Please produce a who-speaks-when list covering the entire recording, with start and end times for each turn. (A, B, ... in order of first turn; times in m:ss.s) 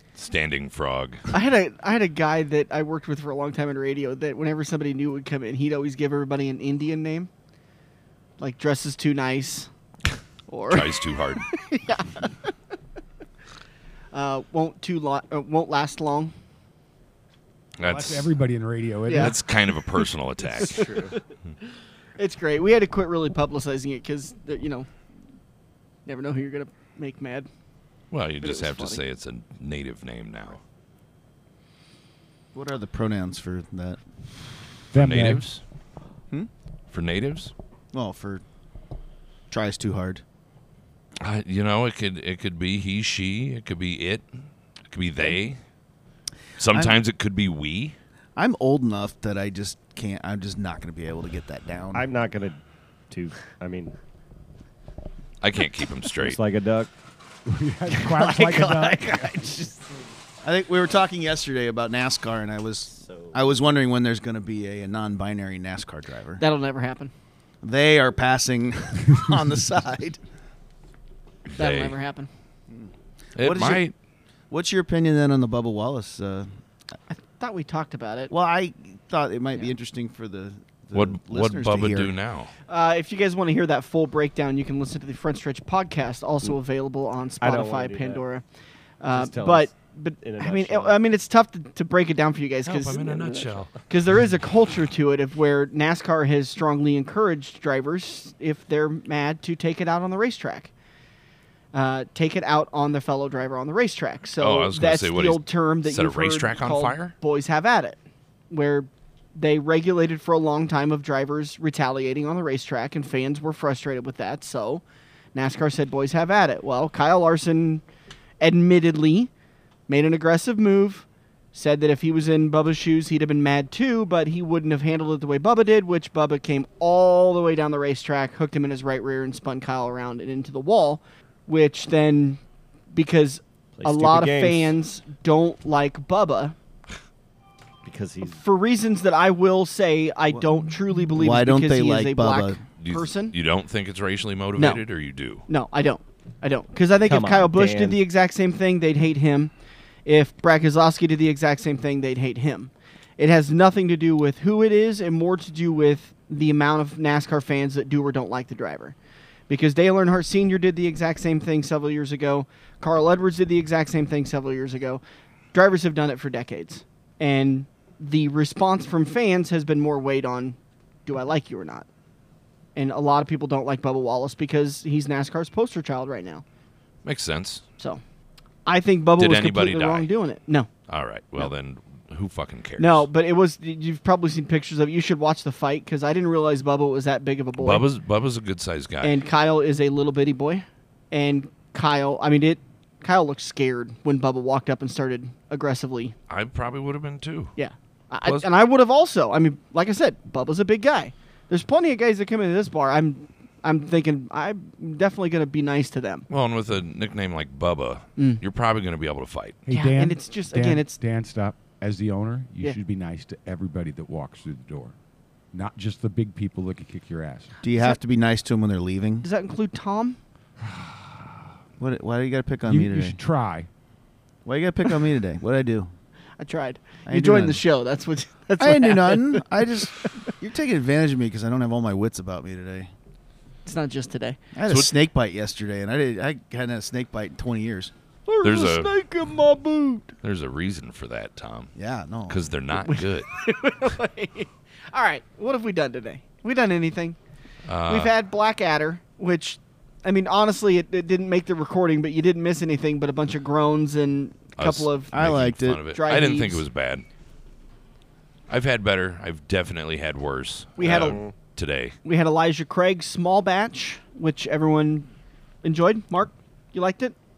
0:00.2-0:01.3 A
0:01.3-0:07.3 B
0:08.4-0:09.7 B
0:10.5-0:12.5 B
0:10.7-0:11.5 A
0:14.1-0:16.3 B
0:17.8-0:18.3 A
0:17.8-0:19.4 C
0:19.1-0:19.4 B
0:19.1-0:21.1 A
0:20.6-0:21.2 B
0:20.6-0:21.1 D
0:22.2-0:24.9 B
0:26.1-0:27.5 B
0:28.1-0:30.6 A
0:28.4-0:29.0 B
0:32.5-0:34.0 E
0:34.9-0:35.4 C
0:35.0-0:35.6 A
0:36.9-0:37.5 A
0:37.9-0:38.4 E
0:39.5-0:40.2 E
0:41.2-0:44.2 A
0:44.9-0:45.6 A
0:46.6-0:48.0 A
0:46.7-0:47.0 E
0:48.4-0:52.1 E
0:51.9-0:52.6 D
0:53.1-0:54.0 D
0:55.4-0:56.4 A
0:56.2-0:56.9 D
0:57.5-0:59.4 C
0:57.9-0:59.9 D
1:00.4-1:06.4 E
1:03.0-1:03.4 D
1:06.4-1:07.1 B
1:07.6-1:10.2 E
1:11.5-1:12.0 A
1:11.6-1:12.3 B
1:12.7-1:13.8 E
1:13.4-1:13.9 A
1:14.5-1:16.5 E
1:17.1-1:18.3 B
1:18.3-1:22.1 E
1:20.9-1:22.5 A
1:22.7-1:28.4 B
1:27.4-1:28.2 D
1:29.0-1:40.7 B
1:29.1-1:31.0 D
1:32.7-1:33.7 A
1:41.7-1:48.0 B
1:44.4-1:47.2 A
1:48.5-1:54.8 B
1:55.3-1:57.8 B
1:58.4-1:59.3 B
1:59.9-2:12.4 B
2:12.9-2:16.6 B
2:13.8-2:14.8 D
2:17.8-2:18.4 D
2:18.3-2:23.4 B
2:21.2-2:22.6 E
2:22.8-2:25.4 A
2:24.6-2:24.8 B
2:25.5-2:29.5 B
2:27.0-2:28.0 D
2:30.0-2:39.0 B
2:39.5-2:45.0 B
2:45.5-2:51.9 B
2:52.8-2:56.4 B
2:57.0-2:57.6 A
2:58.6-3:00.7 B
2:59.2-3:00.1 A
3:00.9-3:03.1 A
3:02.8-3:07.9 B
3:07.6-3:09.2 A
3:09.0-3:16.2 B
3:16.3-3:17.6 A
3:17.6-3:26.3 B
3:18.2-3:18.5 A
3:26.3-3:29.6 A
3:28.2-3:28.4 B
3:29.6-3:34.9 C
3:29.7-3:31.0 B
3:35.5-3:37.6 C
3:37.6-3:39.3 E
3:37.7-3:38.0 B
3:39.2-3:40.2 B
3:40.7-3:41.1 C
3:41.8-3:43.2 E
3:42.7-3:43.7 C
3:44.4-3:45.9 E
3:46.4-3:50.3 B
3:47.1-3:47.6 E
3:48.6-3:52.9 E
3:53.6-3:54.4 B
3:54.5-3:57.9 E
3:54.7-3:55.0 A
3:58.3-4:00.1 B
3:58.4-3:58.9 A
4:00.2-4:01.7 A
4:01.8-4:02.4 E
4:02.3-4:03.3 A
4:02.8-4:07.2 B
4:07.7-4:08.1 A
4:07.9-4:15.2 B
4:14.6-4:17.0 A
4:15.1-4:15.8 E
4:15.9-4:16.6 B
4:18.5-4:22.0 A
4:20.8-4:21.2 B
4:21.0-4:21.3 D
4:22.0-4:25.1 B
4:25.6-4:27.2 B